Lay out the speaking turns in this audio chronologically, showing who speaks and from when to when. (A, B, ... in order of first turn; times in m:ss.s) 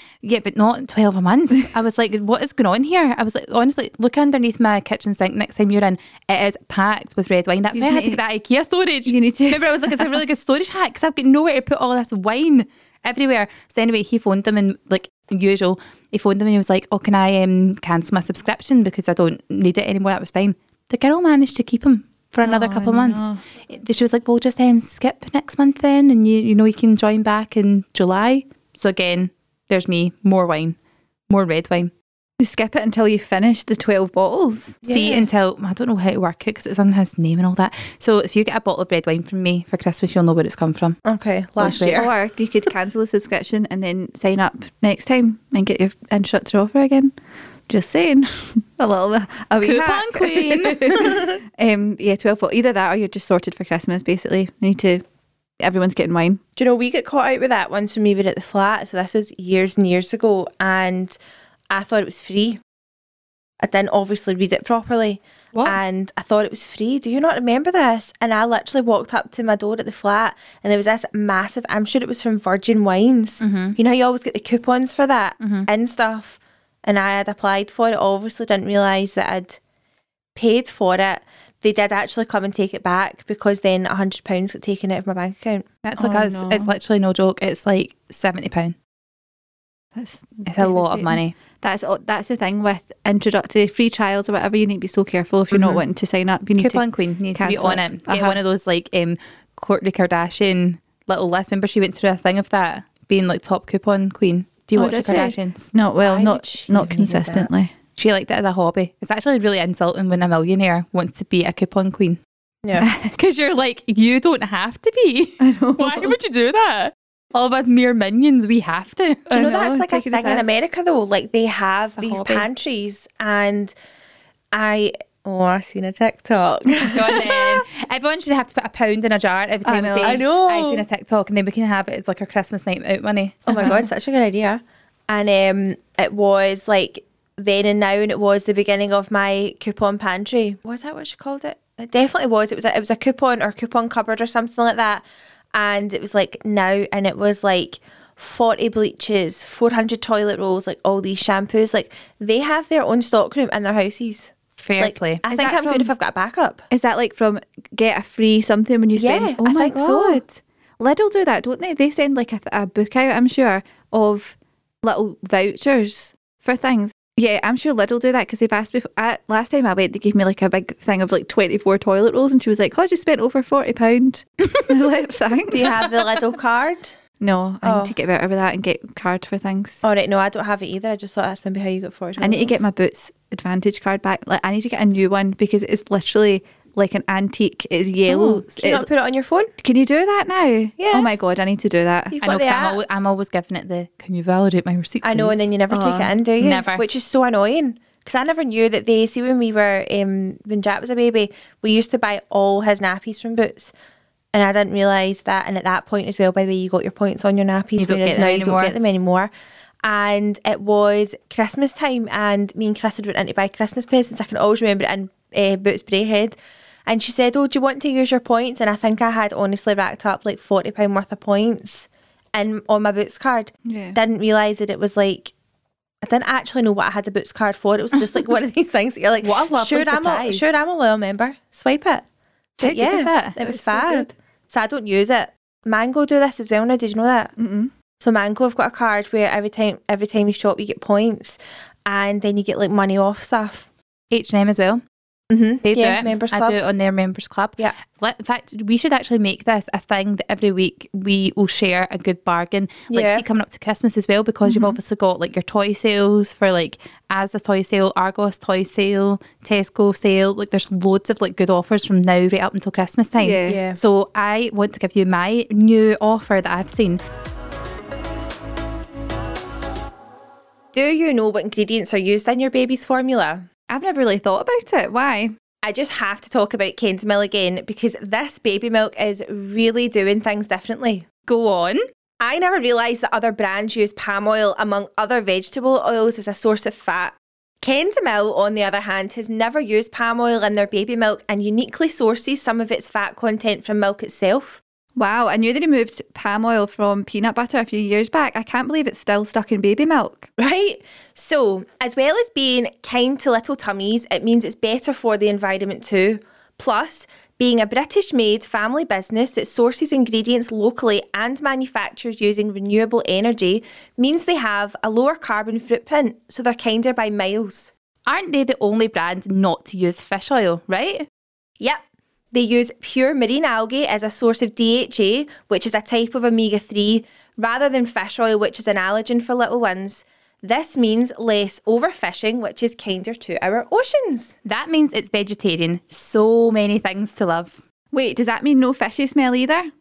0:00.2-0:30.8 A
0:07.7-0:08.2 B
0:09.0-0:10.2 B
0:22.4-0:23.4 B
0:31.3-0:31.9 A
0:32.4-0:34.8 B
0:34.8-0:35.3 C
0:34.9-0:41.0 A
0:41.0-0:42.1 C
0:41.6-0:42.1 A
0:41.6-0:47.1 B
0:47.7-0:55.0 B
0:49.6-0:51.2 A
0:55.6-0:56.4 B
0:56.6-1:01.1 C
1:01.7-1:02.6 C
1:03.6-1:19.6 C
1:13.4-1:13.8 A
1:15.4-1:15.7 A
1:20.4-1:25.6 C
1:25.8-1:28.7 A
1:26.0-1:26.7 B
1:29.9-1:36.8 B
1:30.4-1:31.3 A
1:36.6-1:45.7 A
1:37.3-1:38.4 B
1:44.7-1:47.7 B
1:46.0-1:47.5 C
1:48.0-1:52.2 A
1:52.6-1:52.9 C
1:52.8-1:53.1 B
1:53.1-1:59.3 A
1:55.4-1:56.2 B
1:59.3-2:00.5 B
1:59.3-2:03.7 C
2:02.0-2:02.5 A
2:04.5-2:07.3 C
2:06.9-2:13.8 A
2:09.6-2:10.2 B
2:10.0-2:10.8 C
2:13.5-2:25.0 C
2:13.5-2:13.8 B
2:25.5-2:36.6 C
2:34.6-2:35.2 A
2:35.3-2:35.9 B
2:36.7-2:56.0 B
2:39.0-2:40.2 C
2:55.5-2:57.0 C
2:57.2-2:59.8 B
2:57.6-2:57.9 C
2:59.8-3:02.6 C
3:02.2-3:08.9 B
3:08.1-3:09.5 C
3:09.6-3:12.6 B
3:10.8-3:11.1 C
3:12.1-3:12.8 C
3:12.3-3:15.4 A
3:15.0-3:23.7 C
3:15.7-3:16.1 B
3:16.4-3:16.8 A
3:24.3-3:29.3 C
3:27.8-3:28.7 A
3:29.8-3:45.3 C
3:43.6-3:44.0 B
3:46.0-3:52.0 C
3:49.2-3:50.5 A
3:52.6-3:57.3 C
3:52.6-3:53.4 A
3:53.4-3:54.1 B
3:57.4-3:57.7 B
3:58.0-4:03.7 C
4:04.1-4:04.8 A
4:05.3-4:06.6 C
4:05.6-4:27.0 A
4:12.9-4:13.2 C
4:14.4-4:14.8 B
4:23.2-4:23.6 B
4:23.4-4:23.8 C
4:30.7-4:33.5 C
4:33.7-4:35.4 B
4:35.6-4:41.0 C
4:41.3-4:41.8 A
4:42.2-4:54.6 C
4:55.0-5:00.3 B
5:00.4-5:17.7 C
5:18.0-5:21.0 A
5:22.3-5:34.4 C
5:34.4-5:37.6 A
5:37.9-5:39.7 B